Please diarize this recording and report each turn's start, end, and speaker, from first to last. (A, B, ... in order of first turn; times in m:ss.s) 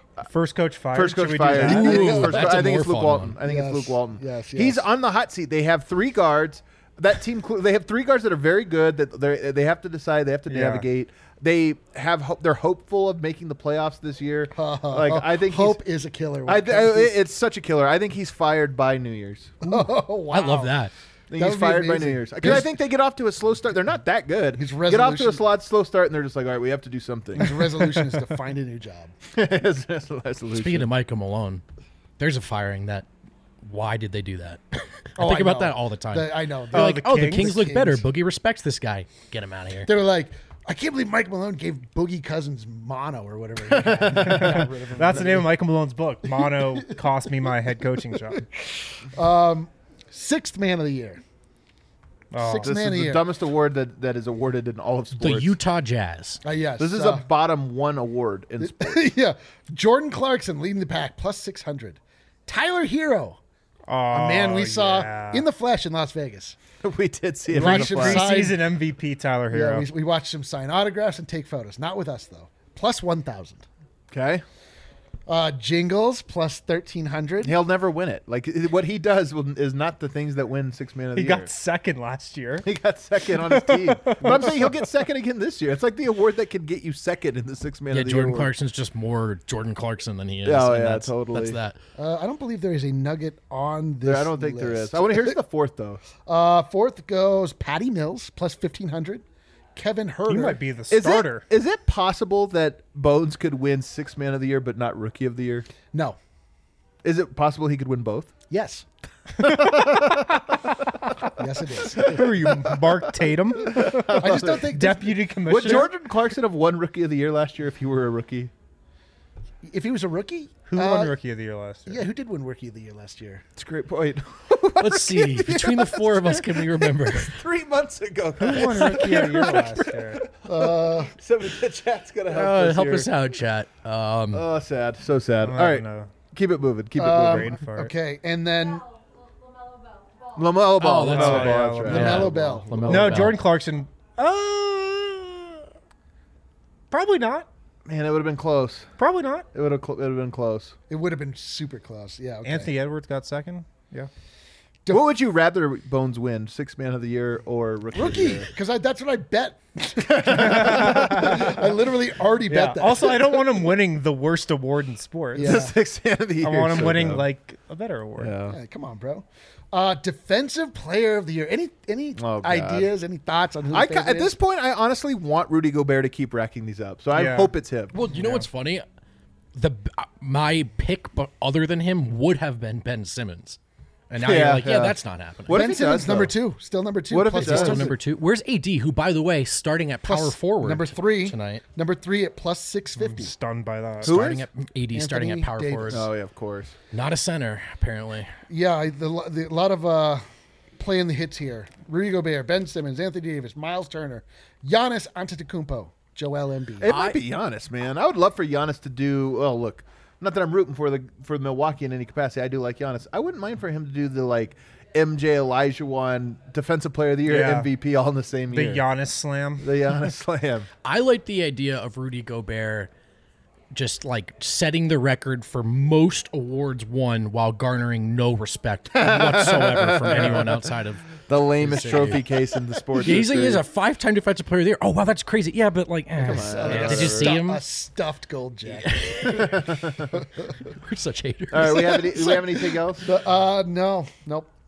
0:00.2-0:02.2 A
0:00.9-0:15.8 B
0:01.6-0:03.4 C
0:01.6-0:02.8 D
0:03.4-0:04.9 D
0:10.5-0:10.8 A
0:14.6-0:17.1 D
0:16.5-0:19.6 B
0:19.6-0:20.8 D
0:20.3-0:20.9 C
0:21.3-0:27.9 B
0:21.3-0:22.7 D
0:24.6-0:25.5 D
0:27.4-0:29.1 D
0:29.3-0:30.9 B
0:30.6-0:31.6 C
0:32.2-0:33.1 C
0:33.6-0:39.9 C
0:35.2-0:38.1 D
0:36.7-0:37.6 A
0:39.8-0:45.5 D
0:43.7-0:44.6 B
0:44.1-0:48.4 A
0:48.6-0:51.2 D
0:52.3-0:52.8 A
0:52.4-0:53.3 D
0:52.6-0:55.6 B
0:55.2-0:56.4 C
0:56.4-0:57.2 D
0:56.8-0:59.0 B
0:58.6-1:03.4 D
1:03.9-1:05.5 A
1:04.1-1:06.6 D
1:06.8-1:08.3 B
1:07.5-1:08.6 D
1:07.6-1:09.9 A
1:09.5-1:13.6 D
1:14.1-1:14.4 B
1:15.3-1:17.6 D
1:17.4-1:21.5 B
1:21.2-1:22.7 A
1:22.6-1:28.5 B
1:23.4-1:24.8 A
1:24.2-1:24.7 D
1:27.9-1:31.8 C
1:30.4-1:31.6 B
1:32.0-1:35.4 D
1:34.0-1:36.0 B
1:36.2-1:39.2 D
1:39.8-1:40.6 D
1:40.3-1:41.4 A
1:40.9-1:45.7 B
1:45.9-1:46.2 D
1:47.0-1:48.3 B
1:48.5-1:48.9 D
1:49.4-1:50.2 A
1:49.4-1:50.4 B
1:51.4-1:52.5 D
1:51.9-1:55.9 A
1:53.7-1:58.5 B
1:54.2-1:55.9 D
1:59.6-2:01.2 D
2:00.7-2:02.0 A
2:01.9-2:03.4 D
2:03.6-2:13.1 B
2:04.8-2:07.4 C
2:08.4-2:10.2 A
2:10.4-2:11.2 D
2:12.3-2:14.5 C
2:14.3-2:17.6 B
2:15.4-2:16.1 A
2:17.0-2:18.8 D
2:17.2-2:17.9 A
2:18.6-2:20.7 E
2:20.4-2:23.3 B
2:20.8-2:23.4 C
2:21.1-2:22.2 A
2:21.9-2:23.1 D
2:22.9-2:25.7 A
2:26.9-2:27.5 A
2:27.8-2:28.9 B
2:29.0-2:29.5 A
2:29.5-2:30.8 B
2:30.9-2:32.7 D
2:32.4-2:34.1 A
2:34.9-2:38.5 B
2:37.9-2:43.5 D
2:40.1-2:41.4 B
2:40.3-2:41.5 A
2:42.5-2:45.6 A
2:45.4-2:45.8 D
2:45.4-2:47.3 B
2:46.4-2:48.3 A
2:48.2-2:48.6 B
2:48.4-2:54.4 D
2:52.2-2:52.9 B
2:53.7-2:58.0 B
2:57.1-2:57.6 A
2:57.9-2:58.8 C
2:58.1-2:58.5 A
2:59.6-3:03.6 C
3:04.1-3:05.8 C
3:04.2-3:06.4 B
3:05.5-3:08.0 D
3:07.1-3:07.9 B
3:07.3-3:11.6 C
3:10.0-3:13.3 D
3:13.0-3:14.2 A
3:14.0-3:16.1 C
3:14.0-3:14.5 B
3:14.9-3:16.1 D
3:15.9-3:16.7 B
3:16.9-3:18.3 C
3:18.5-3:20.2 D
3:20.8-3:26.9 D
3:26.8-3:38.9 B
3:26.8-3:27.2 C
3:37.3-3:37.7 A
3:38.5-3:39.9 A
3:39.6-3:40.7 B
3:40.8-3:42.9 C
3:43.7-3:52.2 C
3:48.9-3:50.7 B
3:51.3-3:53.6 B
3:53.0-3:57.6 C
3:56.2-3:57.4 B
3:56.2-3:59.5 D
3:58.8-3:59.8 C
3:59.2-4:00.2 B
4:00.6-4:02.7 C
4:01.5-4:03.1 B
4:01.9-4:04.5 D